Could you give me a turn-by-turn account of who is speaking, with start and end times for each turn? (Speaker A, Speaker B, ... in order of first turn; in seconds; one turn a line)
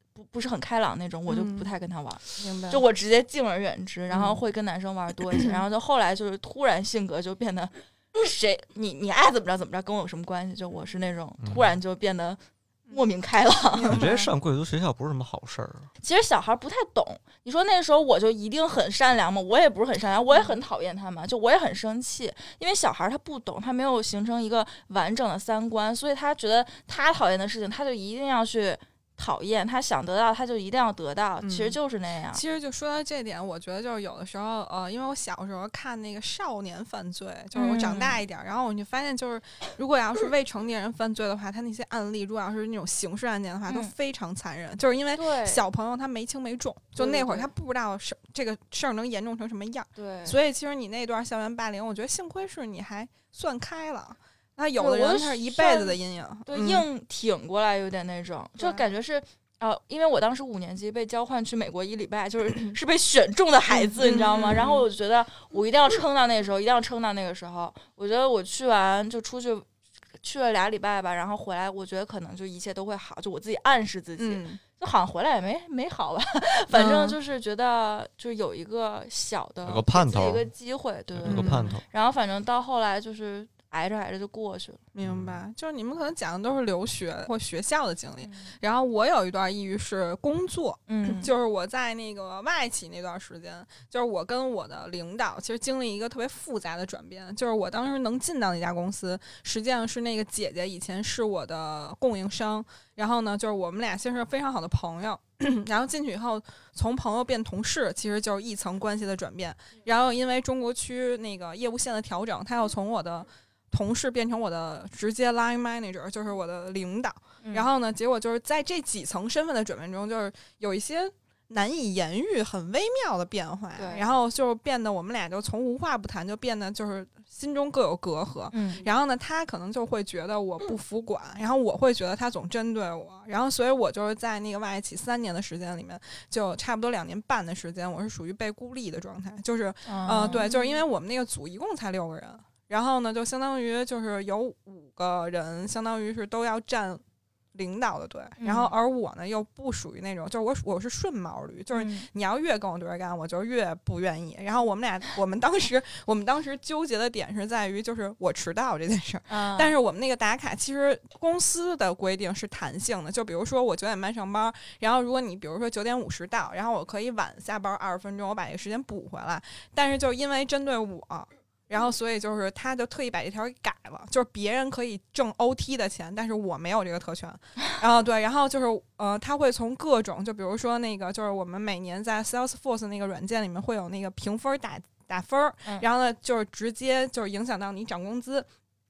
Speaker A: 0.1-14.0
Speaker B: 1.3-1.7
Speaker B: 2.4-2.8
Speaker B: 4.1-4.4
Speaker C: 11.4-11.7
Speaker B: 13.7-14.3
Speaker C: 13.9-15.9
Speaker A: 16.0-32.4
Speaker B: 20.3-20.6
Speaker B: 31.4-31.8
Speaker B: 32.3-56.8
Speaker A: 37.5-38.2
Speaker A: 45.1-45.6
Speaker A: 47.0-47.5
Speaker A: 50.0-50.4
Speaker A: 54.8-69.7
Speaker B: 63.7-64.8
Speaker A: 70.2-84.8
Speaker B: 74.2-74.6
Speaker B: 76.7-77.2
Speaker C: 79.7-80.4
Speaker C: 81.1-81.8
Speaker B: 81.3-81.7
Speaker B: 84.9-147.0
Speaker C: 85.0-85.4
Speaker A: 88.2-88.5
Speaker A: 90.9-91.3
Speaker A: 117.4-117.7
Speaker A: 123.8-124.1
Speaker A: 128.5-128.8
Speaker A: 139.8-140.5
Speaker B: 147.5-188.5
Speaker A: 148.4-148.8
Speaker A: 151.7-152.1
Speaker A: 159.3-159.7